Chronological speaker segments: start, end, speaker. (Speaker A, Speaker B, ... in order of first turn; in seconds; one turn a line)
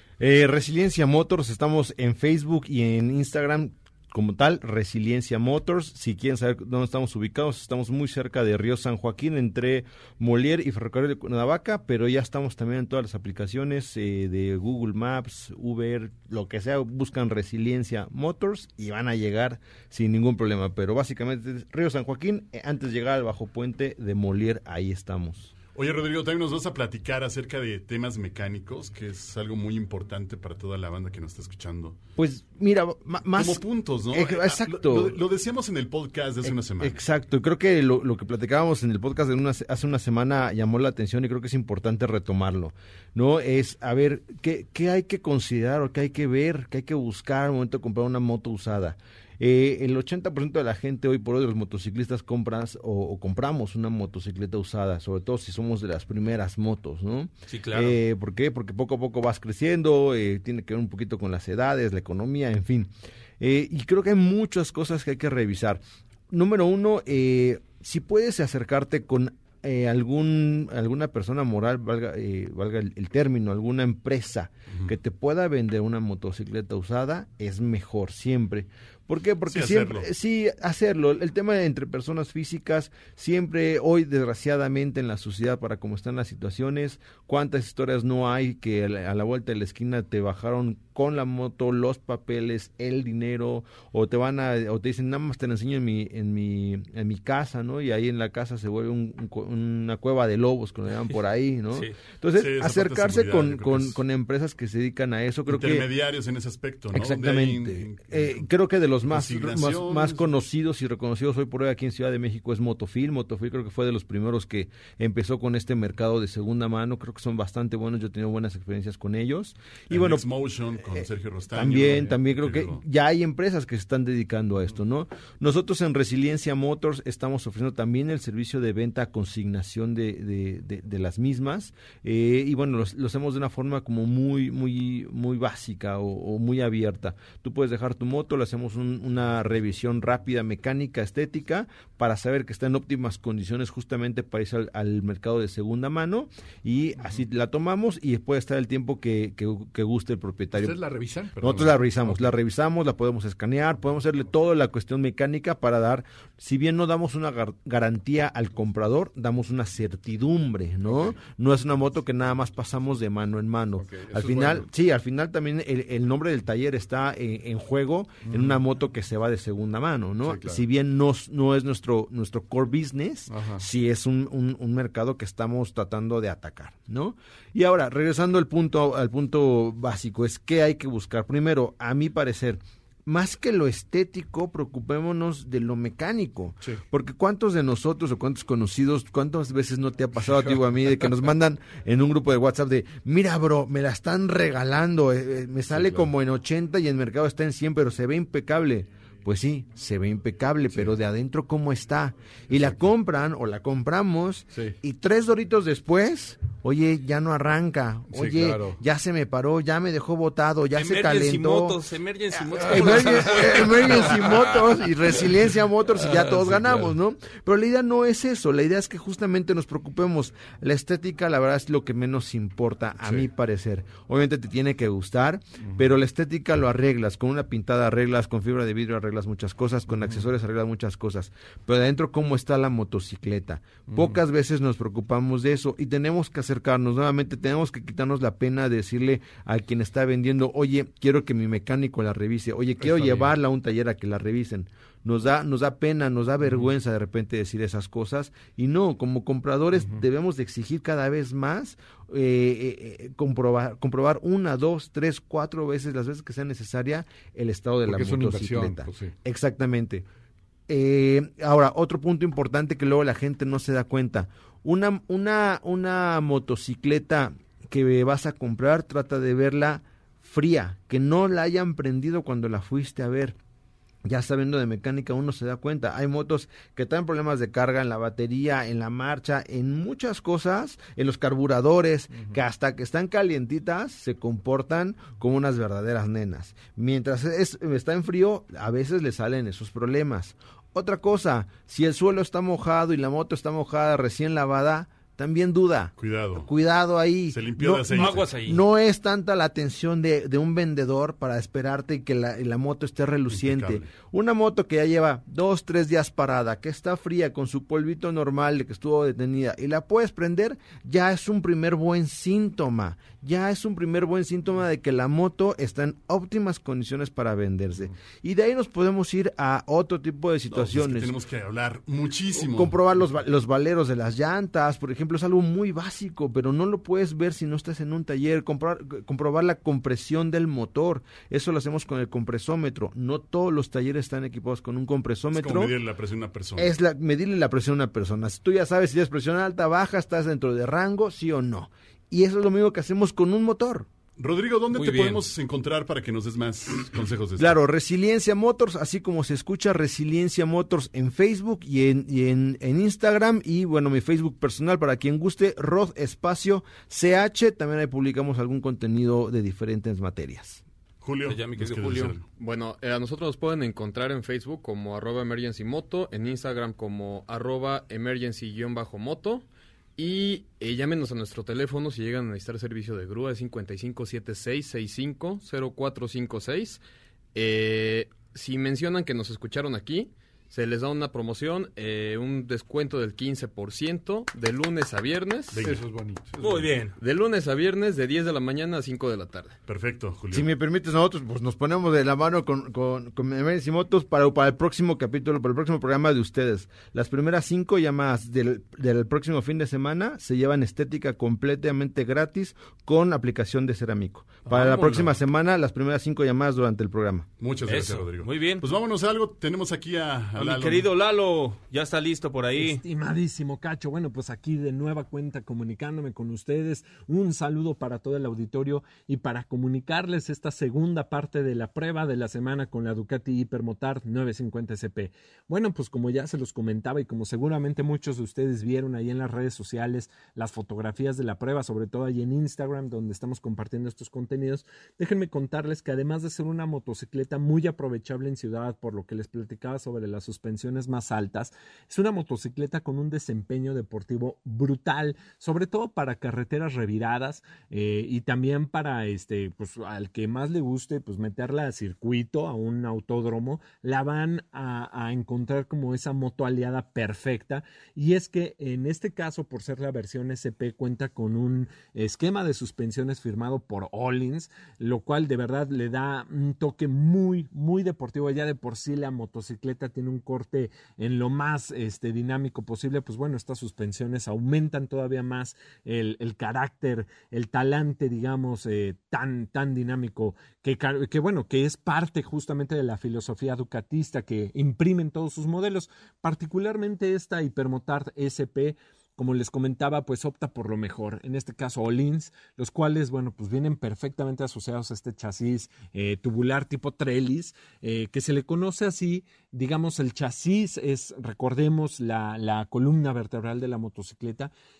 Speaker A: 0.2-25.5
Speaker B: 25.7-32.0
Speaker A: 32.2-35.2
Speaker B: 33.3-37.0
Speaker A: 36.4-105.9
Speaker C: 57.5-58.0
Speaker B: 79.5-80.1
Speaker B: 102.3-104.0
Speaker B: 105.5-108.5
Speaker A: 106.9-120.2
Speaker B: 109.1-110.2
Speaker B: 119.9-122.8
Speaker A: 120.9-150.8
Speaker D: 150.5-152.3
Speaker A: 151.4-211.8
Speaker D: 163.8-164.7
Speaker D: 168.2-168.6
Speaker D: 170.2-170.6
Speaker D: 173.3-173.6
Speaker D: 195.7-196.1
Speaker D: 204.5-204.8
Speaker D: 208.1-208.8
Speaker C: 210.7-214.1
Speaker A: 212.5-260.1
Speaker D: 212.6-214.2
Speaker D: 216.0-216.9
Speaker D: 225.6-225.8
Speaker D: 229.9-230.2
Speaker D: 233.9-234.2
Speaker D: 242.8-243.3
Speaker D: 246.4-246.7
Speaker D: 249.8-250.0
Speaker D: 257.8-259.1
Speaker A: 260.7-273.4
Speaker A: 274.0-321.1
Speaker B: 296.0-296.5
Speaker B: 297.3-298.3
Speaker C: 297.9-298.6
Speaker B: 303.3-303.9
Speaker B: 320.5-323.0
Speaker A: 322.3-335.7
Speaker B: 335.3-336.7
Speaker A: 336.6-343.9
Speaker B: 344.2-347.6
Speaker C: 344.7-345.2
Speaker A: 347.4-360.6
Speaker B: 361.0-362.2
Speaker C: 361.2-362.1
Speaker E: 362.4-376.8
Speaker E: 377.3-385.7
Speaker B: 385.5-385.8
Speaker D: 385.6-386.8
Speaker C: 386.4-387.0
Speaker E: 387.0-389.6
Speaker B: 389.7-390.5
Speaker A: 390.3-407.3
Speaker C: 404.5-405.1
Speaker B: 407.4-410.9
Speaker C: 407.6-408.7
Speaker C: 410.4-412.8
Speaker F: 412.6-504.5